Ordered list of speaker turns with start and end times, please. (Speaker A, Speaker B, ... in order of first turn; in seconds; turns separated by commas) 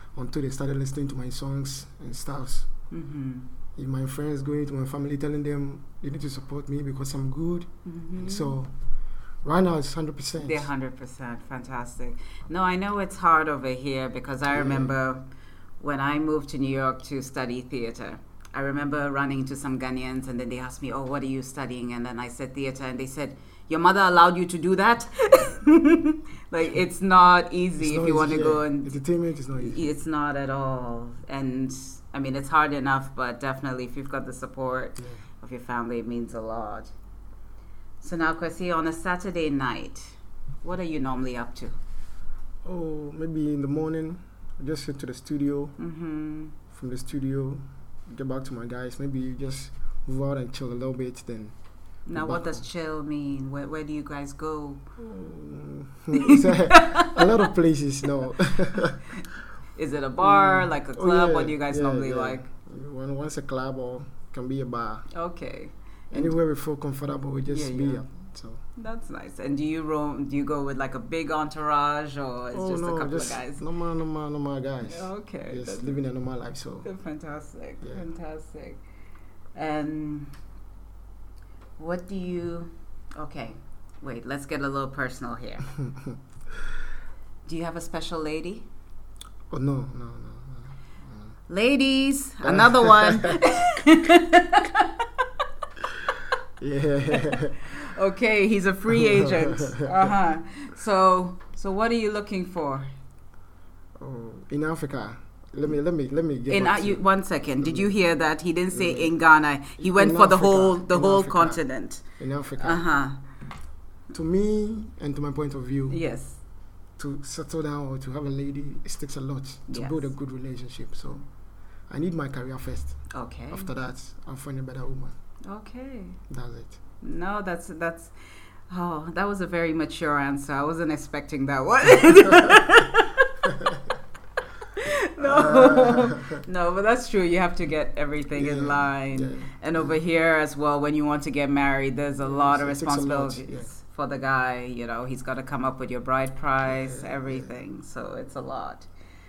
Speaker A: 0.1-2.7, Speaker B: 2.9-3.5, Speaker A: 3.8-8.7, Speaker B: 7.8-8.6, Speaker A: 9.4-10.7, Speaker B: 10.4-15.2, Speaker A: 14.5-14.9, Speaker B: 15.8-29.0, Speaker A: 27.8-29.8, Speaker B: 29.6-36.9, Speaker B: 38.0-41.8, Speaker A: 42.6-45.8, Speaker B: 45.8-46.6, Speaker A: 46.7-51.5, Speaker B: 52.1-54.8, Speaker A: 52.1-52.6, Speaker A: 55.0-59.0, Speaker B: 56.1-57.4, Speaker B: 59.8-62.5, Speaker A: 60.2-65.0, Speaker B: 65.1-66.3, Speaker A: 66.1-68.6, Speaker B: 67.5-68.1, Speaker B: 68.8-73.6, Speaker A: 72.5-76.9, Speaker B: 74.8-76.0, Speaker B: 76.8-78.8, Speaker B: 79.5-80.3, Speaker B: 81.8-85.7, Speaker A: 85.8-86.2, Speaker B: 87.5-88.7, Speaker A: 89.5-91.3, Speaker B: 91.5-95.3, Speaker A: 92.4-93.4, Speaker A: 96.6-97.6, Speaker B: 97.2-102.9, Speaker A: 98.9-100.1, Speaker A: 104.0-107.0, Speaker B: 106.5-112.0, Speaker A: 107.6-107.9, Speaker A: 108.7-109.1, Speaker A: 109.8-111.6, Speaker A: 112.1-112.8, Speaker B: 112.6-113.2, Speaker A: 114.1-116.0, Speaker B: 115.9-116.4, Speaker A: 117.0-121.2, Speaker B: 119.7-120.1, Speaker A: 121.9-125.2, Speaker B: 123.1-123.7, Speaker B: 125.5-126.2, Speaker A: 126.3-126.8, Speaker B: 127.0-128.1, Speaker B: 128.7-133.3, Speaker A: 133.4-133.8, Speaker B: 134.7-148.9, Speaker A: 135.2-136.4, Speaker A: 138.3-140.0, Speaker A: 142.2-143.7, Speaker A: 146.7-147.5